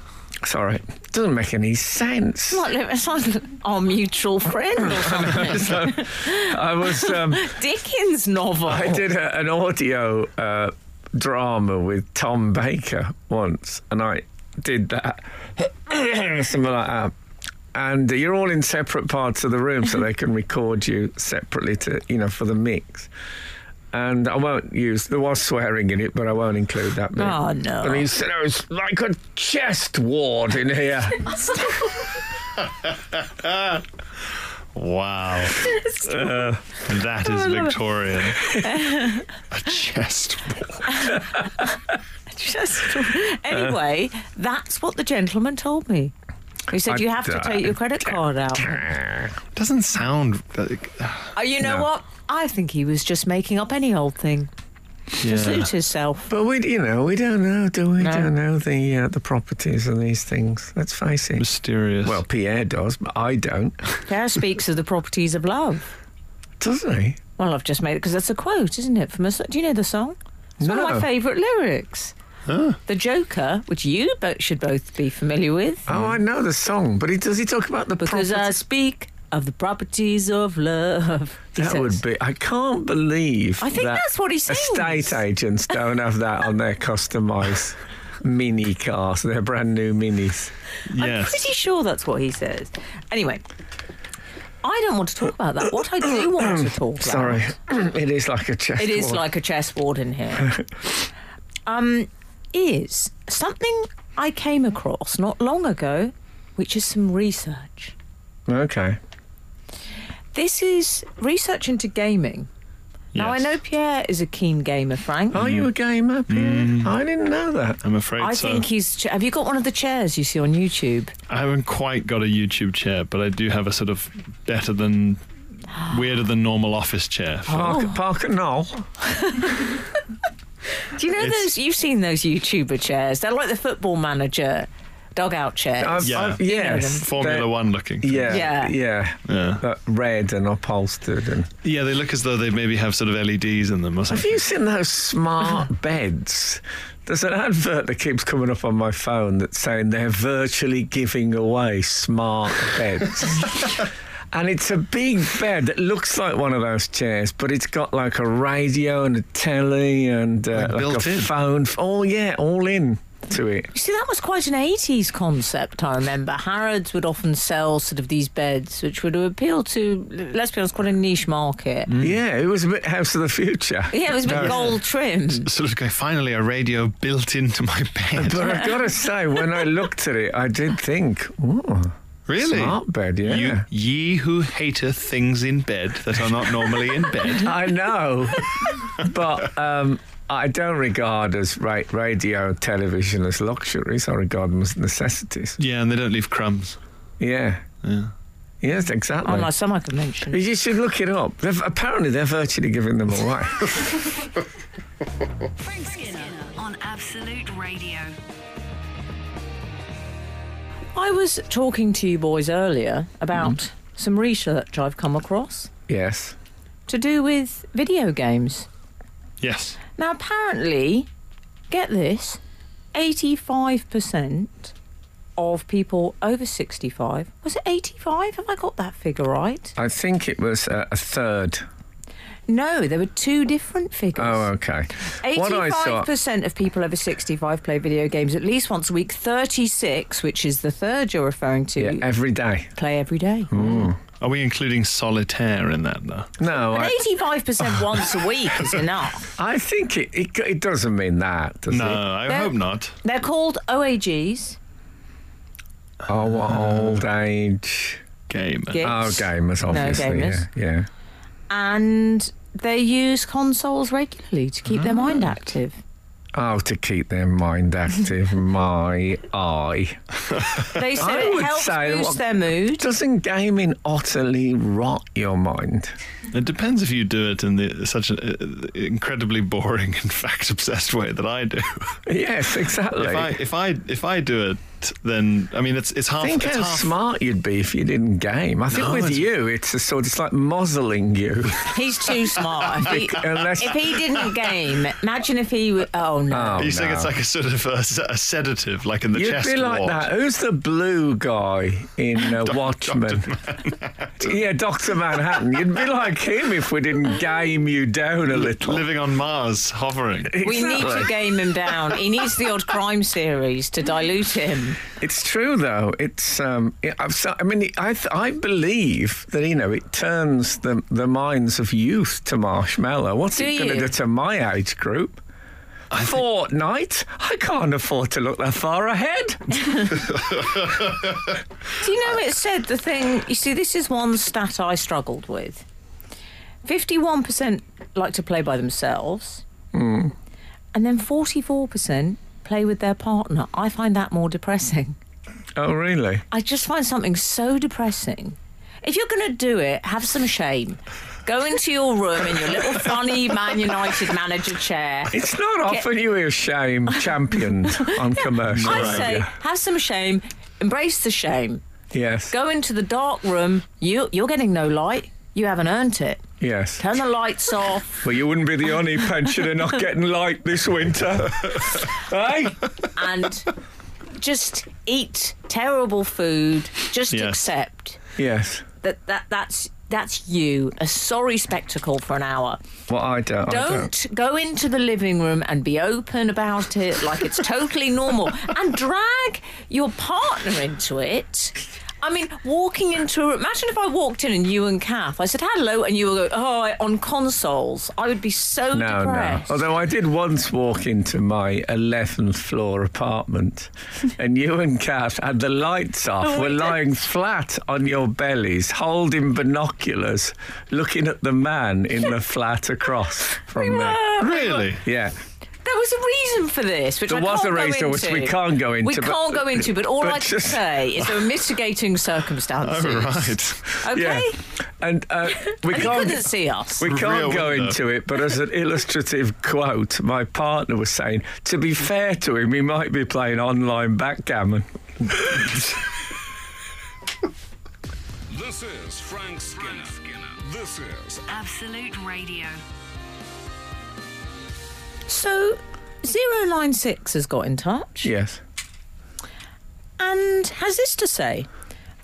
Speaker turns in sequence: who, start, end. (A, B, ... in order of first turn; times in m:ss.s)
0:00.4-0:02.6 A
0:02.5-0:09.0 B
0:04.9-0:07.6 A
0:08.7-0:17.1 A
0:17.7-0:23.1 A
0:23.9-0:31.4 A
0:27.2-0:28.1 B
0:33.2-0:33.8 C
0:34.8-0:35.7 C
0:35.7-0:36.5 B
0:36.1-0:36.6 A
0:36.8-0:38.6 C
0:37.2-0:37.7 B
0:38.5-0:39.3 B
0:39.5-0:41.2 C
0:40.9-0:41.7 B
0:42.3-0:46.1 B
0:46.7-0:48.8 B
0:46.8-0:49.4 A
0:49.6-0:51.4 C
0:51.4-0:54.5 B
0:55.2-0:56.3 B
0:55.2-0:55.7 C
0:56.3-1:01.4 A
0:58.0-0:58.3 B
1:01.4-1:02.2 C
1:02.0-1:03.9 A
1:04.1-1:05.8 B
1:06.6-1:07.2 A
1:07.4-1:12.1 B
1:10.6-1:11.1 A
1:12.5-1:12.8 C
1:12.9-1:15.9 B
1:15.9-1:18.6 A
1:18.0-1:22.0 B
1:21.6-1:30.5 A
1:23.6-1:25.2 B
1:30.9-1:31.5 C
1:31.0-1:33.4 B
1:34.6-1:37.5 B
1:37.0-1:39.2 A
1:38.8-1:40.6 B
1:41.7-1:48.0 B
1:48.5-1:49.0 A
1:50.3-1:52.5 B
1:53.1-1:53.6 C
1:53.2-1:55.4 B
1:55.3-1:57.8 A
1:55.3-1:55.7 C
1:56.3-1:56.9 C
1:57.8-1:58.6 C
1:58.2-2:01.1 B
2:01.3-2:07.8 C
2:07.5-2:08.9 A
2:07.5-2:08.0 B
2:09.0-2:09.7 B
2:10.9-2:17.1 B
2:11.2-2:11.5 C
2:15.8-2:21.5 A
2:16.0-2:18.4 C
2:18.3-2:18.8 B
2:19.3-2:19.6 C
2:21.6-2:24.4 C
2:24.1-2:43.7 A
2:40.5-2:41.3 C
2:43.7-2:51.9 B
2:51.9-2:52.2 C
2:52.0-2:54.7 A
2:53.9-2:55.5 B
2:54.3-2:54.7 C
2:55.4-2:58.8 C
2:58.2-3:03.6 A
3:02.3-3:07.6 C
3:07.4-3:15.6 A
3:15.6-3:16.8 C
3:17.2-3:17.6 A
3:17.8-3:18.1 C
3:18.6-3:19.5 A
3:19.2-3:20.4 B
3:20.3-3:24.1 A
3:25.6-3:28.1 D
3:31.0-3:35.7 B
3:35.9-3:36.4 A
3:36.9-3:38.7 B
3:39.4-3:39.8 C
3:40.0-3:41.1 B
3:41.7-3:42.4 B
3:42.9-3:44.7 B
3:45.4-3:49.7 B
3:49.8-3:51.6 A
3:52.5-3:54.5 B
3:54.2-3:56.1 A
3:55.2-4:02.1 B
4:01.8-4:02.7 A
4:02.8-4:03.6 B
4:03.5-4:04.0 A
4:04.2-4:06.3 C
4:06.4-4:07.0 A
4:06.6-4:09.3 B
4:09.4-4:12.0 A
4:11.7-4:13.0 C
4:12.3-4:14.6 B
4:16.1-4:18.0 A
4:16.6-4:16.9 C
4:18.3-4:18.9 C
4:18.7-4:20.5 B
4:18.8-4:20.9 A
4:21.5-4:25.8 B
4:26.3-4:30.0 A
4:30.7-4:32.9 B
4:31.0-4:36.0 A
4:36.3-4:42.0 C
4:42.1-4:43.4 A
4:43.0-4:46.9 C
4:46.2-4:51.7 A
4:48.7-4:49.3 C
4:51.6-4:56.7 B
4:52.8-4:54.0 A
4:56.3-4:57.1 A
4:56.6-5:00.1 C
4:59.1-5:03.3 A
5:02.2-5:04.3 C
5:04.2-5:08.9 A
5:08.3-5:10.7 C
5:10.3-5:11.1 A
5:10.4-5:14.8 B
5:15.0-5:25.2 A
5:23.4-5:23.9 B
5:25.9-5:29.9 A
5:30.2-5:31.1 C
5:31.8-5:35.7 B
5:36.6-5:39.4 B
5:39.7-5:40.1 A
5:40.7-5:45.0 B
5:45.6-5:46.2 A
5:46.3-5:55.2 B
5:55.1-5:59.3 A
5:57.6-6:01.6 B
5:58.5-5:59.2 C
6:01.9-6:02.3 A
6:02.3-6:06.2 B
6:06.4-6:06.8 A
6:06.8-6:08.0 B
6:08.0-6:12.7 A
6:13.0-6:13.5 B
6:14.1-6:18.0 B
6:17.1-6:17.4 C
6:18.2-6:18.7 A
6:18.8-6:22.6 B
6:22.9-6:23.9 A
6:23.5-6:39.6 B
6:38.7-6:54.0 A
6:46.2-6:46.8 B
6:53.6-6:54.7 B
6:54.2-6:54.8 C
6:54.8-6:55.2 A
6:55.6-7:04.4 B
6:57.1-7:00.7 A
7:02.6-7:03.8 C
7:03.9-7:06.3 A
7:05.4-7:06.9 B
7:06.8-7:15.7 A
7:06.8-7:07.8 C
7:18.3-7:21.3 E
7:21.3-7:22.6 D
7:25.1-7:28.1 B
7:28.0-7:28.4 A
7:30.0-7:31.5 B